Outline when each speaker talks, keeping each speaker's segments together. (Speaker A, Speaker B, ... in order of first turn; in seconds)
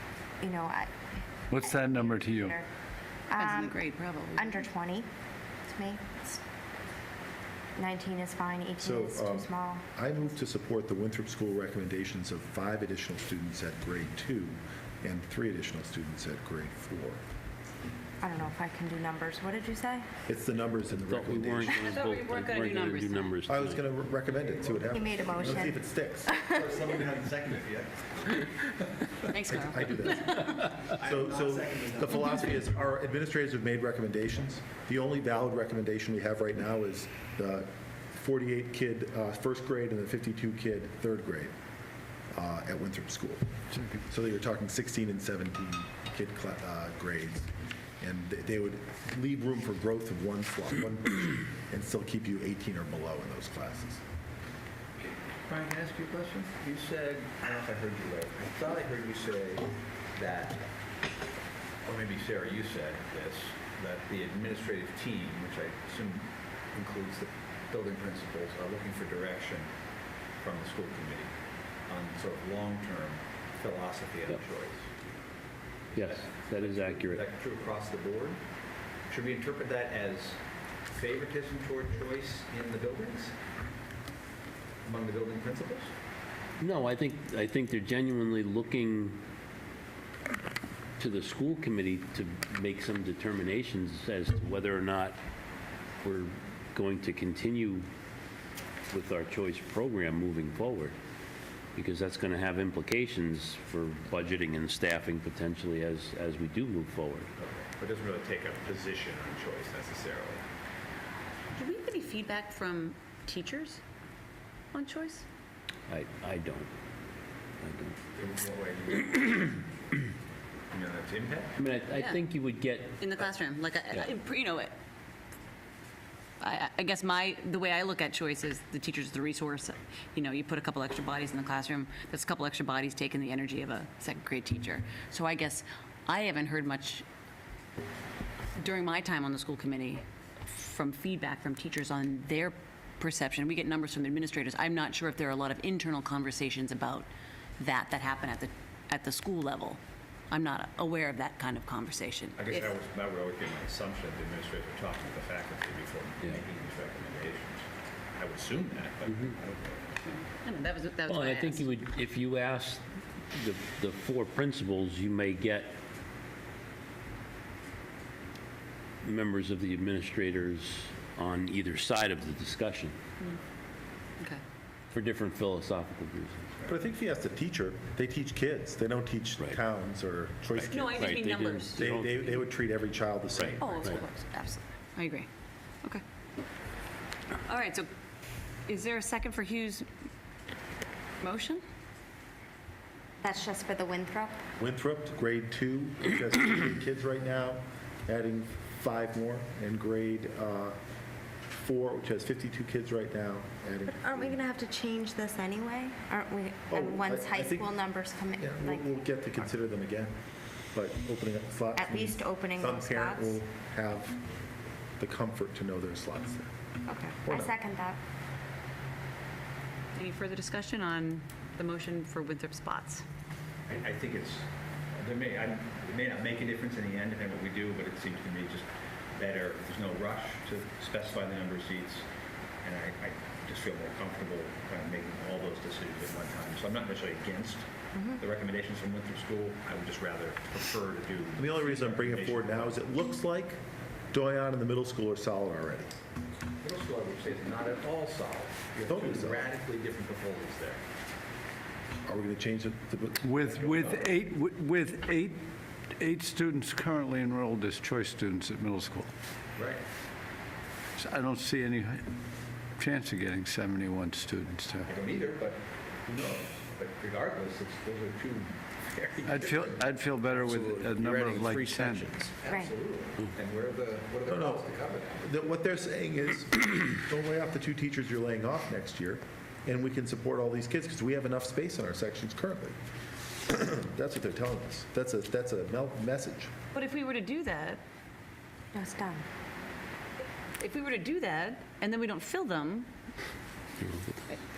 Speaker A: 0.4-2.7, 3.3-5.1, 5.7-6.4, 7.8-9.8, 18.2-20.1, 24.9-26.7, 193.2-194.4, 203.9-209.1, 211.8-213.4, 216.9-218.0, 237.9-238.2, 272.5-272.7, 288.7-289.2
Speaker B: 1.5-2.5, 253.2-255.4, 255.9-259.1, 261.0-262.1, 262.8-264.9, 269.3-272.1
Speaker C: 3.4-4.6, 21.8-23.3, 29.3-30.1, 111.6-113.8, 114.7-115.2, 121.9-122.2, 123.0-124.7, 126.4-137.1, 138.6-147.1, 147.6-149.8, 150.3-152.7, 160.2-161.7, 180.7-181.8, 183.6-185.3, 187.5-187.9, 188.7-189.9, 191.2-191.6, 220.0-223.0, 286.7-287.8, 290.6-292.9
Speaker D: 8.8-17.2, 20.3-21.8, 23.5-26.3, 29.4-41.5, 42.3-43.5, 44.0-54.0, 176.7-181.1, 181.8-183.9, 194.6-200.8, 201.5-204.4, 206.7-207.8, 208.4-210.1, 210.7-214.2, 215.0-216.5, 217.2-217.5, 241.4-243.6, 244.1-245.9, 248.9-249.4, 252.1-253.6, 274.3-274.7, 275.2-282.8, 283.4-286.5
Speaker E: 21.0-23.9, 76.0-77.2, 86.6-89.2, 91.0-95.2, 96.0-97.9, 98.9-101.0, 101.8-107.3, 115.9-116.7, 117.6-118.0, 121.6-123.3, 161.1-165.8, 169.0-173.0, 174.9-176.5, 180.6-182.4, 293.8-294.1
Speaker F: 24.3-25.7, 26.4-29.1, 31.0-32.4, 55.5-60.6, 61.8-69.7, 70.4-71.3, 71.9-74.8, 76.0-78.4, 79.1-80.4, 80.9-83.3, 84.8-85.9, 107.4-110.4, 118.1-119.6, 120.7-121.5, 152.4-160.2, 223.7-224.4, 225.0-232.0, 232.6-242.8, 246.6-250.8, 253.5-254.1, 259.6-259.8, 264.8-275.3